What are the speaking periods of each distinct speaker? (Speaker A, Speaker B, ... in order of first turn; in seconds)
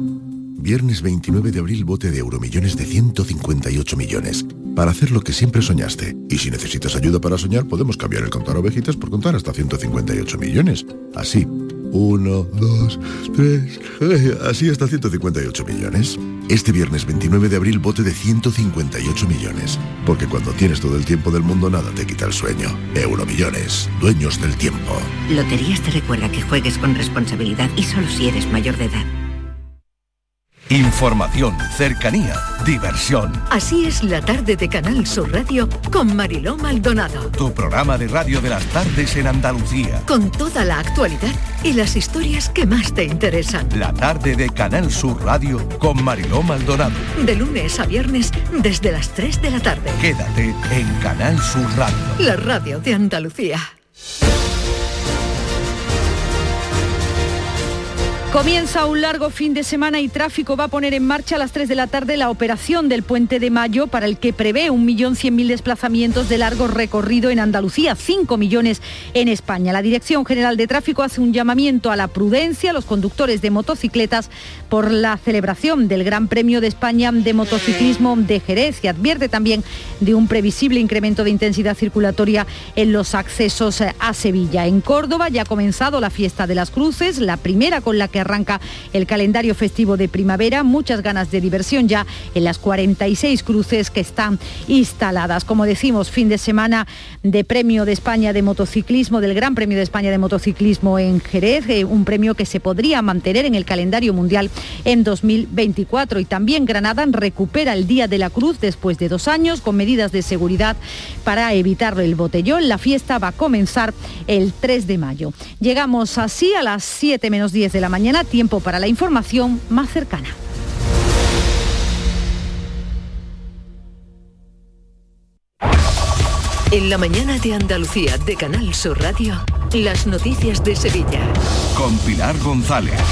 Speaker A: 0.6-25.1
Speaker B: 25.3-29.1
Speaker C: 30.7-33.5, 37.4-40.1, 43.7-47.1, 50.0-52.2, 131.7-133.0
Speaker D: 33.5-37.3, 40.1-43.7, 47.2-50.0, 52.2-53.7, 126.7-131.3
Speaker E: 58.3-120.4